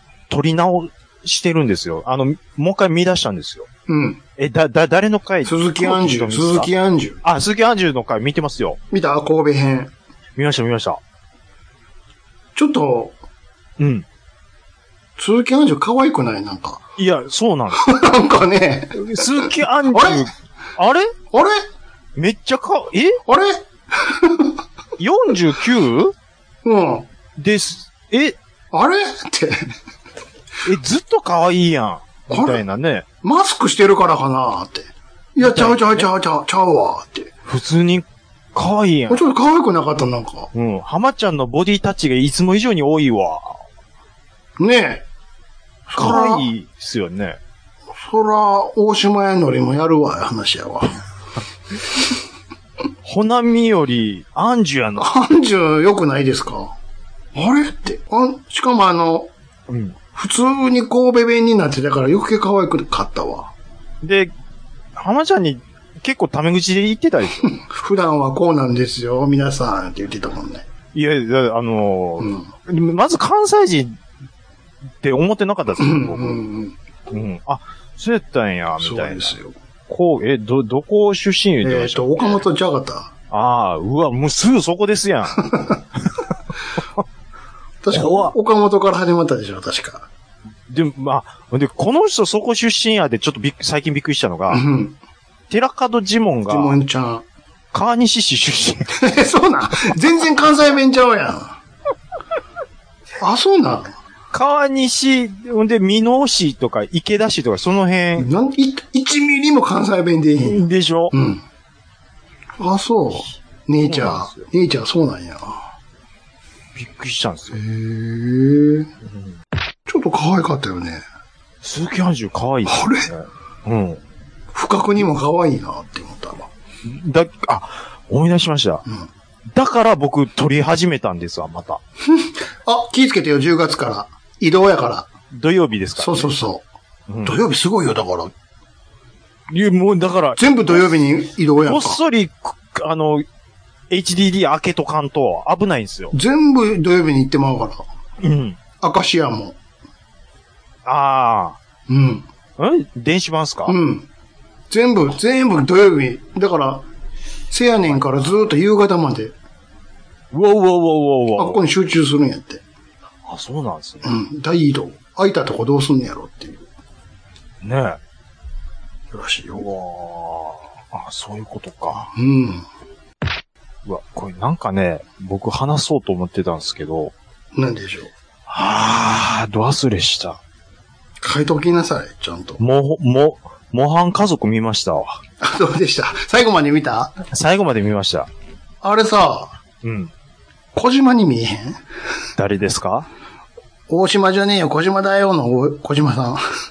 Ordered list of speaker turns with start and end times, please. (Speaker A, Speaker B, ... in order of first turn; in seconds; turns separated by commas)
Speaker A: 0.3-3.7, Speaker B: 3.9-4.2, Speaker A: 4.4-6.7, Speaker B: 5.5-7.2, Speaker A: 7.2-8.8, Speaker B: 8.9-9.9, Speaker A: 10.4-11.0, Speaker B: 12.6-13.2, Speaker A: 13.8-14.1, Speaker B: 15.2-16.8, Speaker A: 17.0-17.9, Speaker B: 17.8-20.3, Speaker A: 18.9-21.1, Speaker B: 21.3-21.6, Speaker A: 22.2-23.2, Speaker B: 23.3-24.6, Speaker A: 25.0-26.1, Speaker B: 26.6-27.1, Speaker A: 27.4-28.4, Speaker B: 28.7-29.7, Speaker A: 30.6-33.0, Speaker B: 32.3-32.6, Speaker B: 33.2-37.3, Speaker A: 35.4-36.1, Speaker A: 37.5-39.2, Speaker B: 39.1-40.5, Speaker A: 40.5-43.6, Speaker B: 44.6-45.0, Speaker B: 45.9-46.5, Speaker A: 46.0-47.4, Speaker B: 48.0-51.0, Speaker A: 53.0-55.1, Speaker B: 55.0-56.8, Speaker B: 57.3-59.3, Speaker A: 59.7-60.0, Speaker B: 60.1-63.5, Speaker A: 64.0-64.3, Speaker A: 65.0-67.5, Speaker B: 67.4-70.7, Speaker A: 70.9-74.0, Speaker B: 72.2-72.5, Speaker A: 75.0-76.4, Speaker B: 75.8-76.8, Speaker A: 77.1-79.4, Speaker B: 78.8-79.5, Speaker A: 79.9-82.4, Speaker B: 81.6-83.1, Speaker A: 83.3-85.5, Speaker B: 87.8-90.1, Speaker A: 87.9-88.3, Speaker A: 90.7-94.7, Speaker B: 94.5-95.0, Speaker A: 95.5-96.8, Speaker B: 96.5-97.2, Speaker A: 97.7-99.0, Speaker B: 99.0-101.6, Speaker B: 103.2-104.0, Speaker A: 104.3-108.3, Speaker B: 108.2-111.4, Speaker A: 110.4-111.1, Speaker B: 112.6-115.7, Speaker A: 113.8-114.5, Speaker A: 116.8-117.6, Speaker B: 117.5-118.9, Speaker A: 119.1-119.3, Speaker B: 119.9-121.0, Speaker A: 121.6-124.0, Speaker B: 122.7-123.1, Speaker B: 124.5-126.5, Speaker A: 126.8-128.8, Speaker A: 129.5-131.8, Speaker B: 132.1-135.1, Speaker A: 135.3-136.3, Speaker B: 136.0-136.7, Speaker A: 137.1-137.4, Speaker B: 137.2-138.3, Speaker A: 139.5-140.4, Speaker B: 140.4-142.0, Speaker A: 141.6-143.3, Speaker A: 143.9-146.2, Speaker B: 146.1-147.8, Speaker A: 148.2-148.6, Speaker B: 148.8-149.6, Speaker A: 150.9-151.6, Speaker B: 151.9-152.3, Speaker A: 152.6-153.8, Speaker B: 153.7-154.1, Speaker B: 154.7-156.9, Speaker B: 157.5-159.3, Speaker A: 157.9-158.4, Speaker A: 160.3-161.6, Speaker B: 161.4-162.6, Speaker A: 163.3-164.2, Speaker B: 164.0-166.7, Speaker A: 167.6-168.0, Speaker B: 169.1-169.7, Speaker A: 169.6-172.1, Speaker B: 172.2-172.7, Speaker A: 173.8-177.1, Speaker B: 177.6-178.1, Speaker A: 178.5-180.4, Speaker B: 181.2-182.6, Speaker A: 182.6-185.2, Speaker B: 185.4-187.2, Speaker A: 187.3-188.3, Speaker B: 188.8-189.5, Speaker A: 189.8-190.1, Speaker B: 190.7-191.8, Speaker A: 192.4-193.1, Speaker B: 193.9-196.4